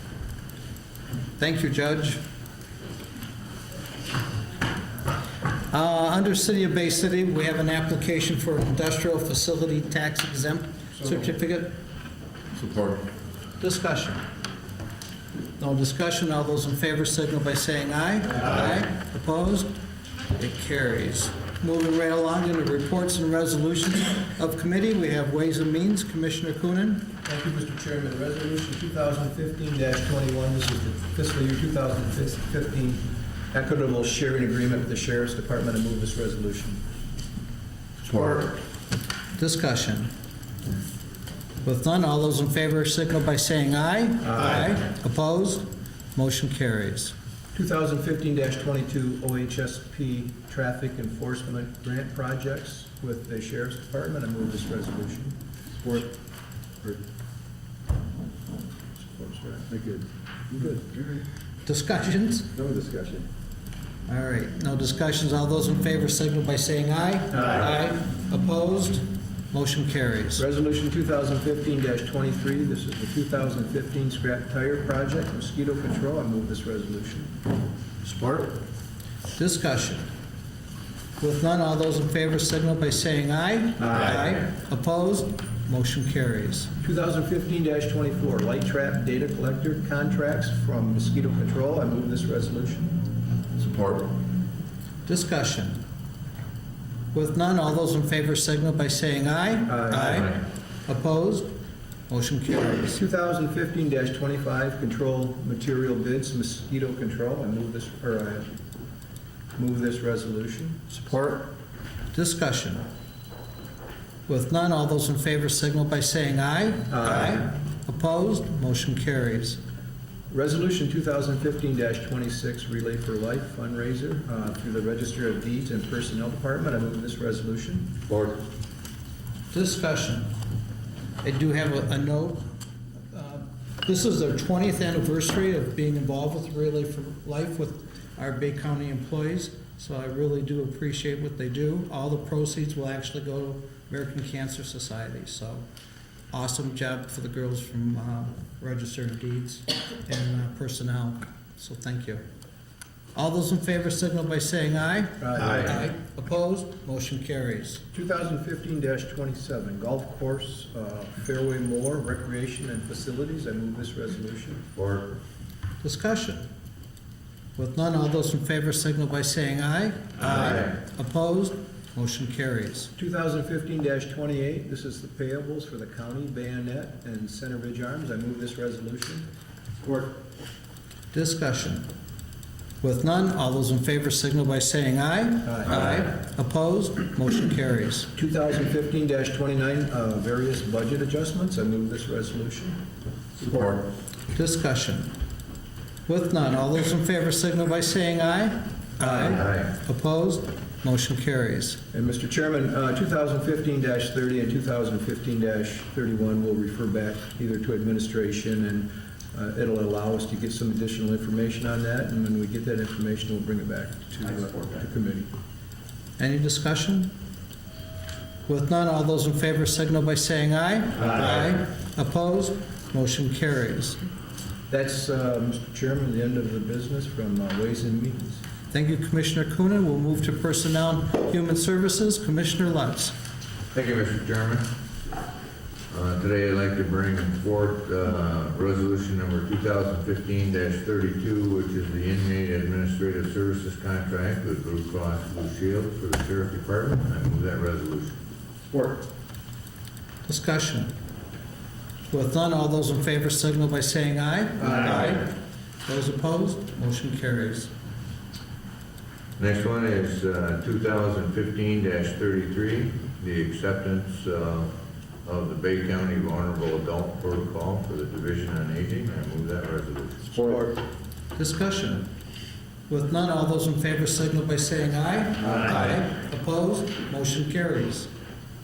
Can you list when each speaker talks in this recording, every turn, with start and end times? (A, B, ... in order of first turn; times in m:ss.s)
0:01.4-0:02.2 A
0:05.7-0:11.7 A
0:12.6-0:13.0 B
0:13.6-0:14.2 A
0:15.6-0:19.7 A
0:20.4-0:27.1 A
0:27.2-0:36.8 C
0:38.0-0:38.6 C
0:39.4-0:40.1 A
0:41.6-0:47.1 A
0:44.3-0:44.6 C
0:47.5-0:55.4 C
0:55.8-0:56.1 B
0:59.0-0:59.7 C
0:59.7-1:01.2 B
1:01.7-1:02.5 A
1:02.6-1:03.3 B
1:04.1-1:10.4 A
1:10.4-1:17.3 C
1:18.0-1:18.5 C
1:19.4-1:20.1 A
1:21.2-1:26.7 A
1:23.8-1:24.1 C
1:26.8-1:33.0 C
1:33.6-1:34.0 B
1:33.6-1:34.0 D
1:35.1-1:35.8 A
1:37.1-1:41.5 A
1:39.7-1:40.3 C
1:42.1-1:43.0 A
1:42.9-1:48.5 C
1:49.6-1:51.5 C
1:52.1-1:52.9 A
1:54.3-1:59.6 A
1:56.9-1:57.5 C
2:00.3-2:07.9 C
2:08.1-2:08.4 D
2:09.5-2:10.3 A
2:11.2-2:12.4 A
2:13.1-2:25.6 A
2:26.3-2:32.2 A
2:33.2-2:37.8 A
2:35.2-2:35.9 C
2:37.9-2:44.6 C
2:44.8-2:45.1 D
2:45.8-2:46.5 A
2:47.6-2:52.9 A
2:50.3-2:50.7 D
2:53.0-2:59.3 C
2:59.8-3:00.1 C
3:01.1-3:01.9 A
3:02.8-3:08.1 A
3:05.4-3:05.9 C
3:08.2-3:12.8 C
3:13.4-3:13.8 C
3:14.3-3:15.1 A
3:16.1-3:21.8 A
3:19.1-3:19.7 D
3:21.9-3:35.3 C
3:36.2-3:37.1 A
3:38.5-3:44.0 A
3:44.7-3:48.4 C
3:48.7-3:53.1 A
3:53.7-3:54.7 D
3:55.9-4:08.2 D
4:10.3-4:10.9 A
4:12.1-4:15.4 A
4:15.9-4:17.7 A
4:19.4-4:24.7 D
4:25.2-4:30.6 D
4:30.4-4:30.7 C
4:31.4-4:32.1 A
4:32.9-4:38.1 A